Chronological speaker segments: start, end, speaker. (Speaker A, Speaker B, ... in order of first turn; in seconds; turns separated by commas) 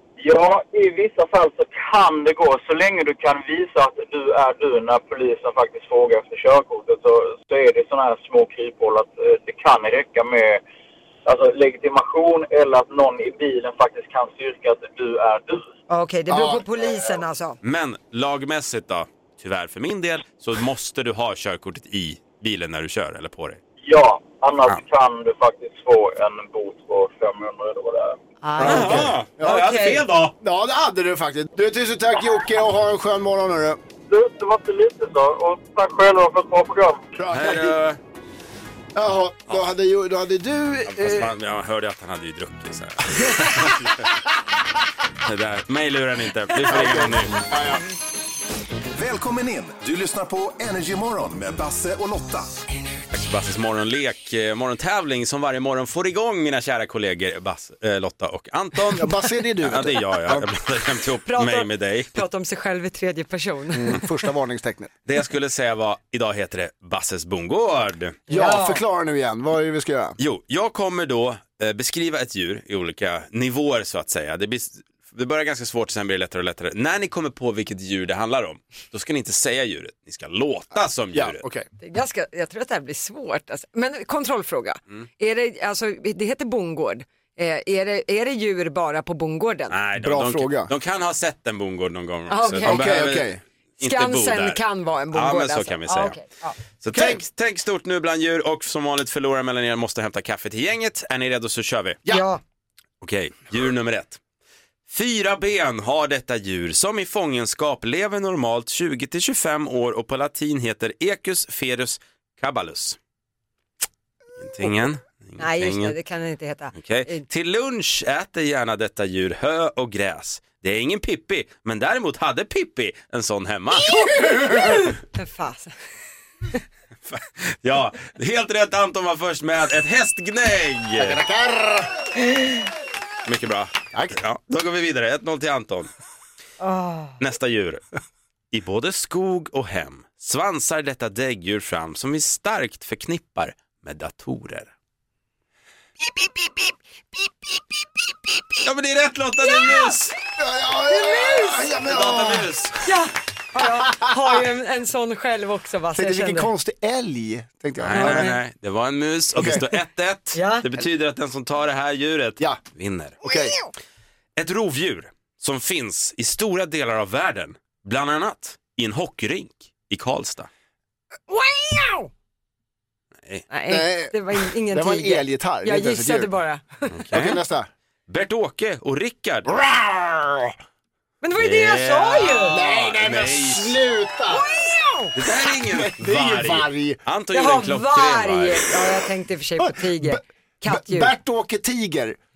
Speaker A: 0.2-10.6, Speaker A: 11.2-15.7, Speaker B: 15.9-17.6, Speaker C: 16.3-16.6, Speaker D: 17.6-23.6, Speaker A: 23.8-28.2, Speaker B: 28.4-30.0, Speaker C: 28.6-29.6, Speaker D: 28.6-30.3, Speaker C: 30.4-33.8, Speaker A: 34.1-37.0, Speaker C: 37.2-37.8, Speaker D: 37.3-38.0, Speaker C: 38.9-41.3, Speaker D: 40.9-44.1, Speaker D: 45.2-47.5, Speaker C: 46.6-47.8, Speaker E: 49.0-52.5, Speaker D: 53.1-59.1, Speaker C: 58.9-60.5, Speaker D: 59.6-62.2, Speaker B: 61.3-64.0, Speaker C: 63.7-64.9, Speaker D: 65.0-68.2, Speaker B: 68.3-68.8, Speaker C: 68.3-70.2, Speaker D: 70.2-81.4, Speaker B: 81.8-89.8, Speaker D: 89.7-96.2, Speaker C: 90.0-90.7, Speaker B: 92.3-92.9, Speaker C: 92.6-93.4, Speaker B: 93.8-96.6, Speaker D: 96.8-102.0, Speaker C: 96.9-97.2, Speaker B: 102.1-102.4, Speaker D: 103.0-104.2, Speaker D: 104.9-113.0, Speaker D: 114.4-116.0, Speaker B: 115.4-117.2, Speaker D: 116.8-124.0, Speaker C: 123.9-124.8, Speaker B: 124.3-125.7, Speaker D: 127.1-131.2, Speaker C: 131.0-131.9, Speaker D: 133.2-135.9, Speaker B: 136.6-137.1, Speaker D: 137.2-137.8, Speaker D: 138.5-144.7, Speaker D: 148.6-150.1, Speaker C: 150.4-152.5, Speaker B: 150.9-151.7, Speaker D: 151.8-152.8, Speaker B: 152.8-156.5, Speaker C: 155.9-158.3, Speaker D: 157.8-163.2, Speaker B: 157.9-158.4, Speaker C: 159.4-159.6, Speaker B: 160.3-160.7, Speaker C: 163.2-163.5, Speaker D: 164.4-170.5, Speaker B: 171.3-172.1, Speaker B: 173.5-177.0, Speaker C: 173.7-176.3, Speaker D: 176.9-177.4, Speaker C: 177.1-177.7, Speaker D: 178.1-179.5, Speaker C: 179.5-180.5, Speaker B: 181.2-182.6, Speaker D: 181.4-183.8, Speaker C: 182.4-184.4, Speaker B: 184.3-185.1, Speaker D: 185.2-188.7, Speaker C: 185.5-187.0, Speaker B: 187.3-191.1, Speaker C: 189.6-192.2